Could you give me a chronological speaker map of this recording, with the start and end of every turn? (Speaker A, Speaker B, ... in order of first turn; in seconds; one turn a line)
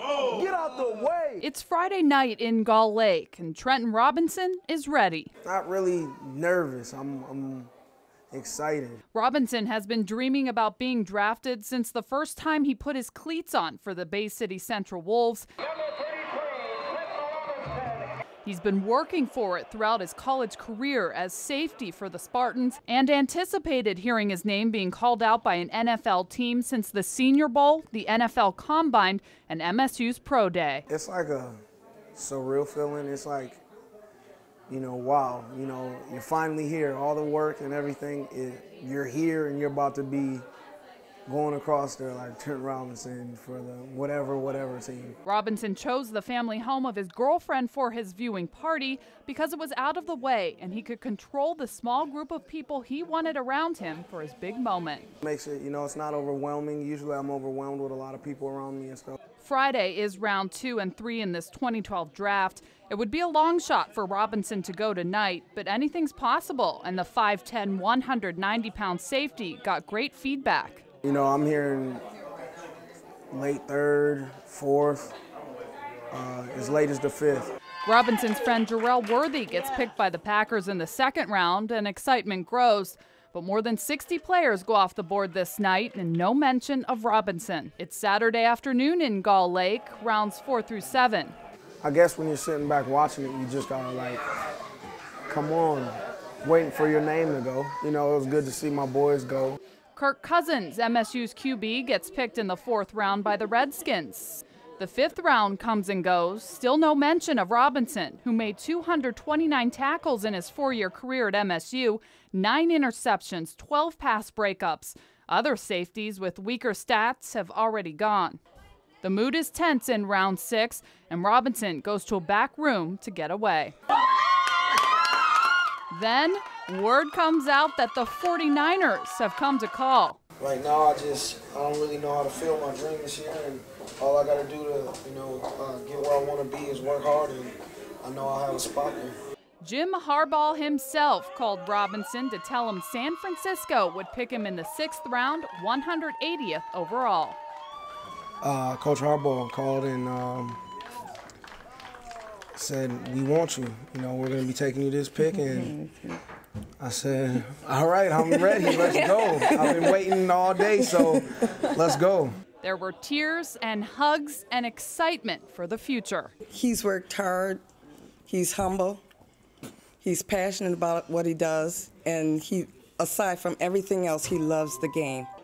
Speaker A: 0.2-1.5
Speaker B: 1.4-5.3
Speaker A: 5.4-7.7
Speaker A: 8.3-9.0
Speaker B: 9.1-15.5
Speaker B: 18.4-30.9
Speaker A: 30.9-31.6
Speaker A: 32.1-33.6
Speaker A: 34.7-40.5
Speaker A: 41.3-45.2
Speaker B: 45.3-55.1
Speaker A: 55.2-59.2
Speaker B: 59.4-70.8
Speaker A: 71.0-72.0
Speaker A: 73.3-75.2
Speaker A: 76.1-77.5
Speaker B: 77.8-91.3
Speaker A: 91.8-94.2
Speaker A: 95.3-99.6
Speaker B: 100.0-118.4
Speaker B: 119.0-123.8
Speaker B: 125.9-130.2
Speaker A: 130.4-139.2
Speaker B: 139.6-147.4
Speaker A: 148.4-150.6
Speaker A: 152.6-155.8
Speaker C: 155.3-156.2
Speaker A: 156.8-162.3
Speaker C: 158.3-160.1
Speaker C: 160.8-161.2
Speaker B: 162.6-166.3
Speaker C: 166.5-167.6
Speaker C: 168.3-169.0
Speaker C: 170.0-175.3